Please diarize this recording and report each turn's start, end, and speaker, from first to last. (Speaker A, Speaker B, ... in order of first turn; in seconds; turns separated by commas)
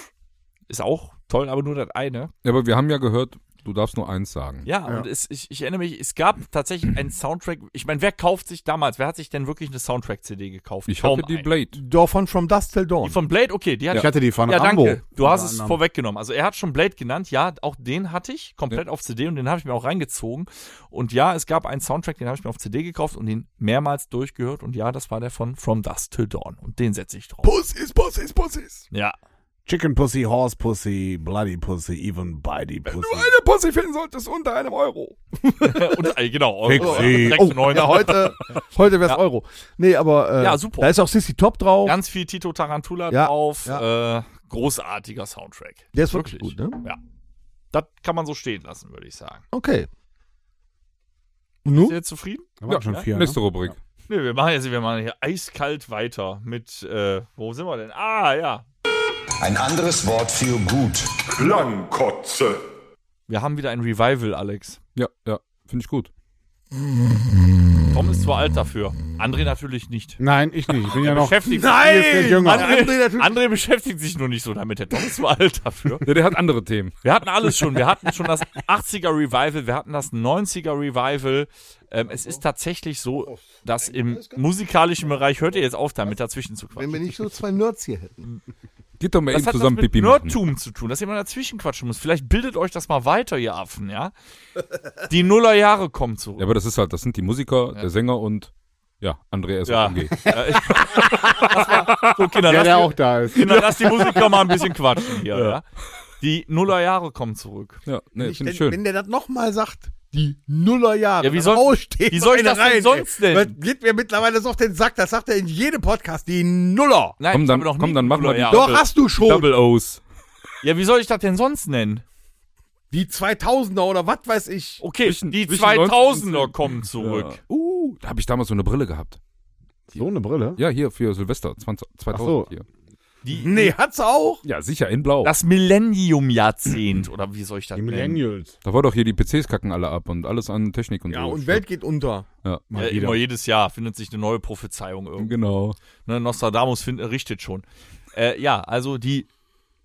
Speaker A: 0.7-2.3, Speaker B: 2.4-4.7, Speaker A: 4.7-11.5, Speaker B: 10.9-11.8, Speaker C: 11.7-13.2, Speaker A: 13.0-27.5, Speaker D: 13.9-15.8, Speaker C: 27.4-28.9, Speaker A: 28.9-29.2, Speaker D: 29.7-33.3, Speaker C: 32.9-36.1, Speaker A: 35.6-38.3, Speaker D: 36.6-37.8, Speaker C: 36.7-42.0, Speaker A: 40.4-41.0, Speaker A: 41.9-47.0, Speaker C: 43.1-43.8, Speaker C: 45.9-46.8, Speaker A: 47.7-49.4, Speaker C: 49.5-49.9, Speaker C: 51.6-52.0, Speaker A: 51.7-53.1, Speaker D: 52.6-53.4, Speaker B: 52.7-53.8, Speaker A: 54.1-58.6, Speaker E: 59.4-62.6, Speaker A: 63.3-64.8, Speaker B: 65.0-66.1, Speaker A: 67.9-70.2, Speaker D: 70.2-72.8, Speaker A: 70.8-76.0, Speaker C: 71.5-73.4, Speaker B: 76.0-77.0, Speaker A: 77.0-87.2, Speaker C: 83.3-84.4, Speaker C: 85.1-86.2, Speaker C: 86.7-88.3, Speaker B: 89.0-90.4, Speaker A: 89.3-94.1, Speaker A: 95.1-96.5, Speaker B: 96.4-102.2, Speaker A: 99.7-105.6, Speaker D: 102.4-104.2, Speaker A: 106.2-107.8, Speaker B: 107.9-108.8, Speaker C: 108.2-117.2, Speaker A: 111.2-113.6, Speaker A: 117.2-118.9, Speaker B: 117.3-120.0, Speaker C: 118.5-119.5, Speaker A: 120.6-122.0, Speaker C: 122.9-124.8, Speaker A: 124.8-127.4, Speaker B: 125.0-129.2, Speaker D: 129.9-130.6, Speaker B: 130.6-132.6, Speaker D: 132.1-132.5, Speaker A: 133.2-133.8, Speaker C: 133.3-134.4, Speaker B: 134.4-135.3, Speaker A: 135.2-138.2, Speaker D: 137.8-138.6, Speaker B: 138.6-141.7, Speaker C: 141.1-142.3, Speaker D: 142.7-143.2, Speaker A: 142.8-145.3, Speaker B: 145.2-145.8, Speaker A: 146.1-149.3